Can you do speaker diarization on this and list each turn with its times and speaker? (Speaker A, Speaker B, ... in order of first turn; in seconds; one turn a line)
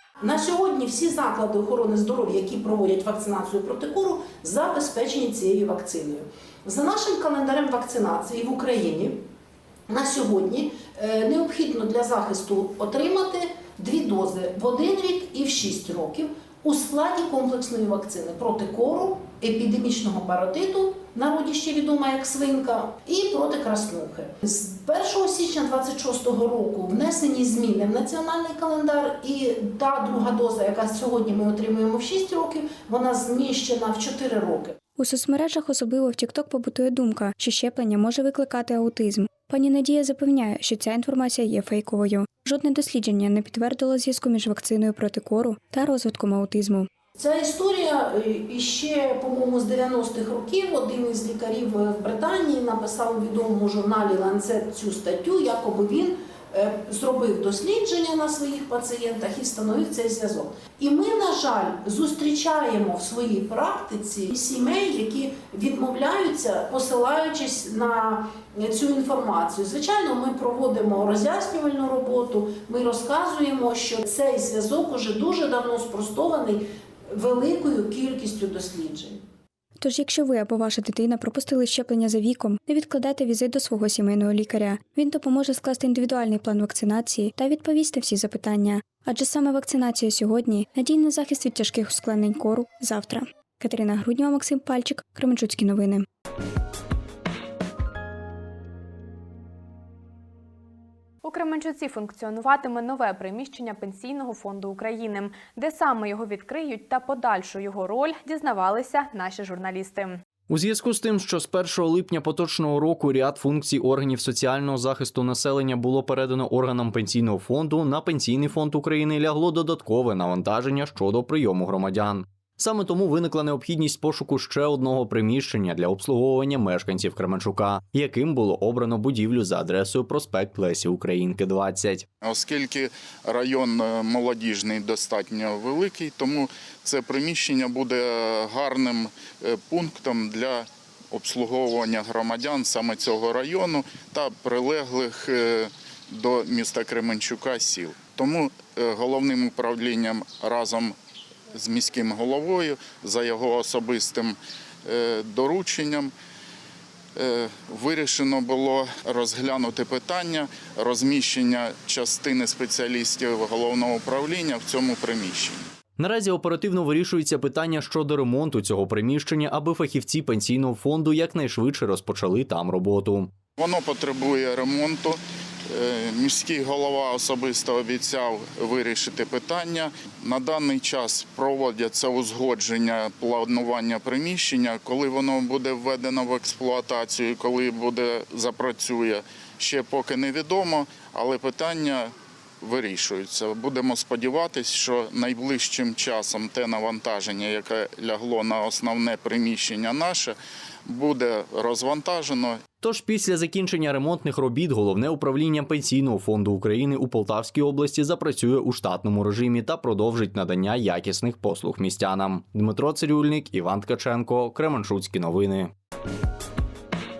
Speaker A: 0.2-9.2
Speaker A: 9.9-34.8
Speaker B: 35.0-46.9
Speaker A: 47.1-79.2
Speaker B: 79.8-96.0
Speaker C: 101.2-110.2
Speaker D: 110.5-132.1
Speaker E: 132.2-150.9
Speaker E: 151.5-156.1
Speaker E: 157.2-165.6
Speaker D: 166.0-173.3
Speaker E: 173.6-202.6
Speaker D: 202.8-215.7